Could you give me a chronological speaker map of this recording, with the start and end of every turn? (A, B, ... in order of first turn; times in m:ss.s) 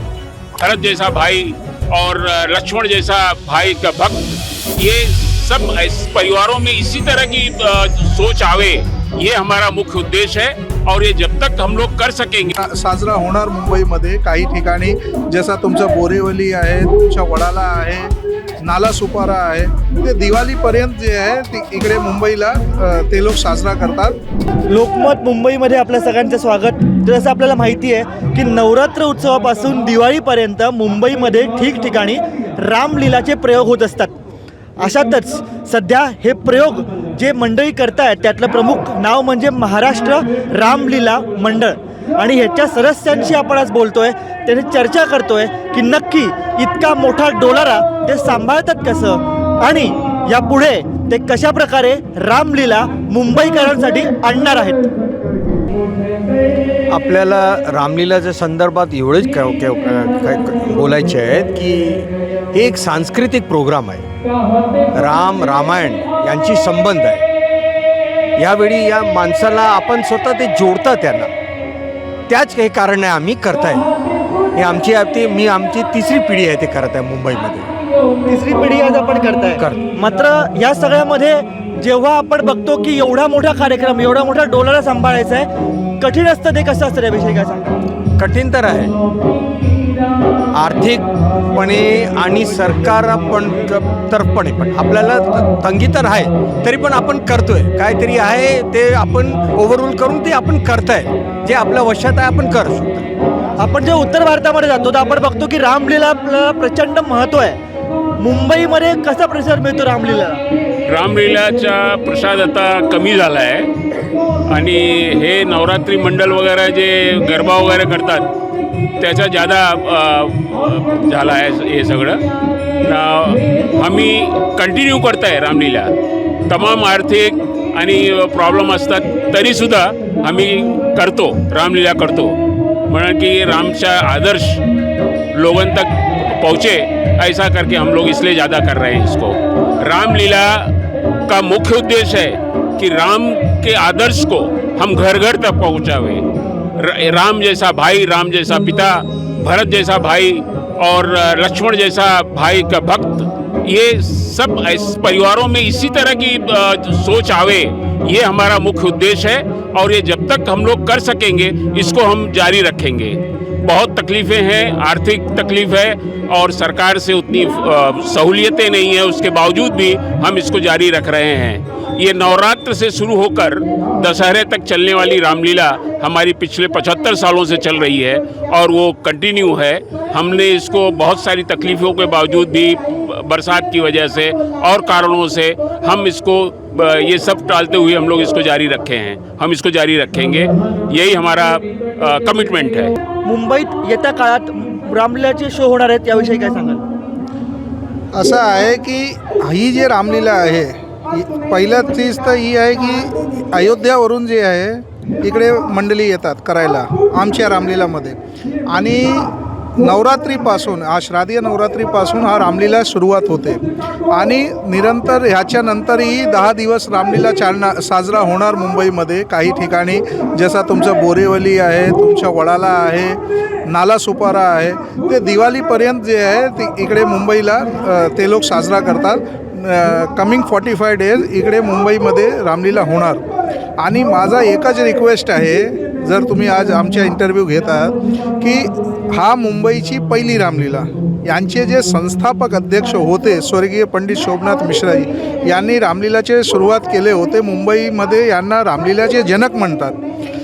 0:00.6-0:12.5 A
0:12.6-0:24.2 B
0:24.7-0:34.2 C
0:34.8-0:54.9 C
0:56.9-1:04.1 D
1:05.0-1:07.2 D
1:08.4-1:11.3 D
1:12.3-1:13.9 D
1:14.5-1:17.7 D
1:18.3-1:25.5 C
1:19.6-1:19.9 D
1:26.0-1:27.8 C
1:28.2-1:28.9 D
1:30.5-1:43.1 D
1:43.6-1:47.6 C
1:48.2-1:50.4 C
1:50.9-1:53.7 A
1:54.5-1:58.3 A
1:59.0-2:02.2 A
2:02.8-2:05.9 A
2:06.5-2:12.4 A
2:12.9-2:14.6 A
2:15.3-2:20.8 A
2:21.3-2:26.3 A
2:26.8-3:12.9 A
3:13.2-3:16.8 C
3:18.1-3:28.2 B
3:28.7-3:53.3 B
3:53.8-4:10.0 B